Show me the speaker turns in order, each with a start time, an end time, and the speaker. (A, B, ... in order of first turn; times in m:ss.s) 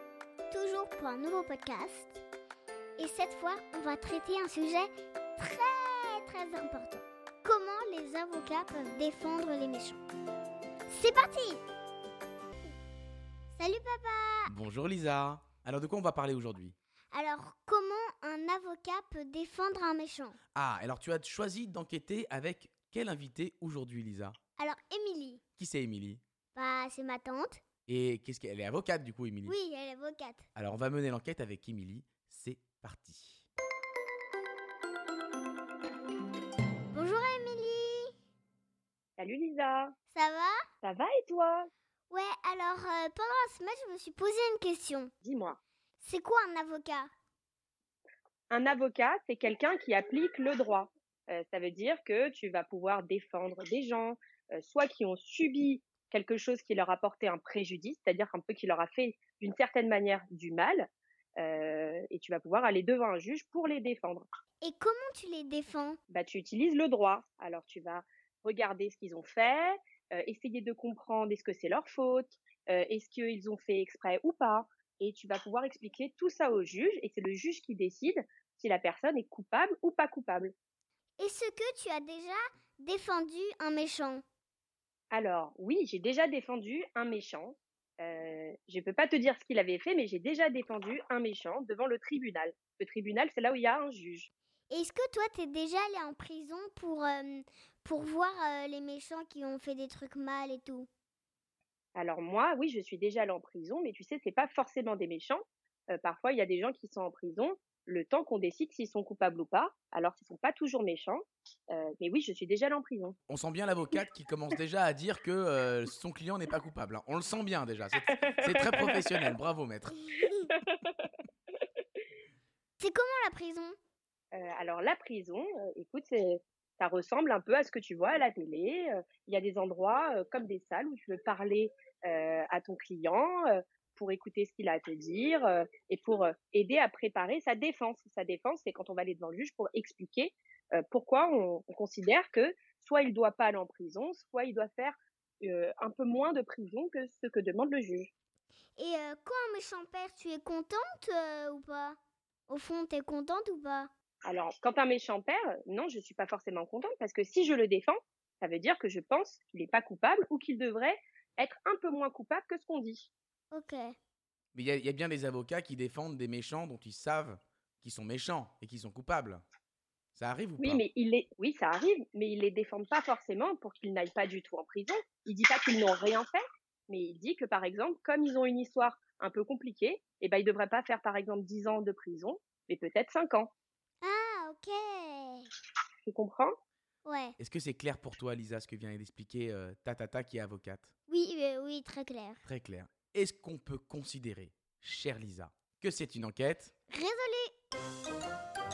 0:00.5-0:02.2 A
0:03.0-0:10.0 A
0:10.9-0:11.6 A
0:13.5-0:14.5 A
0:14.5-0:16.7 B
0:17.1-0:20.4 A
0:20.5-0:24.3 B
0:24.6-0:25.4 A
0:25.6-0:26.2 B
0:26.5-0:27.6 A
0:27.9-0:29.5 B
0:29.4-0:30.4 A
0:30.6-0:33.5 B
0:36.9-0:38.1 A
0:39.2-0:39.9 C
0:40.1-0:40.6 A
0:40.8-0:41.7 C
0:42.1-0:45.1 A
0:45.2-0:45.6 C
0:46.0-0:47.1 A
0:48.5-1:00.9 C
1:01.4-1:04.2 C
1:04.6-1:06.0 A
1:06.1-1:20.5 C
1:21.2-1:24.2 A
1:25.1-1:34.3 C
1:34.7-1:40.9 A
1:41.9-1:53.2 C
1:53.3-2:00.0 B
1:58.2-1:59.3 C
2:00.2-2:00.4 A
2:00.5-2:01.1 C
2:02.8-2:03.8 A
2:04.3-2:28.1 C
2:28.8-2:32.0 A
2:32.5-2:33.9 A
2:34.2-2:43.1 C
2:43.5-2:43.9 A
2:44.5-2:49.4 B
2:50.1-2:50.8 B
2:50.6-3:03.5 C
3:04.0-3:05.5 A
3:06.0-3:06.5 C
3:07.0-3:07.4 A
3:07.4-3:10.9 B
3:11.1-3:12.4 A
3:12.4-3:16.7 B
3:16.9-3:17.5 A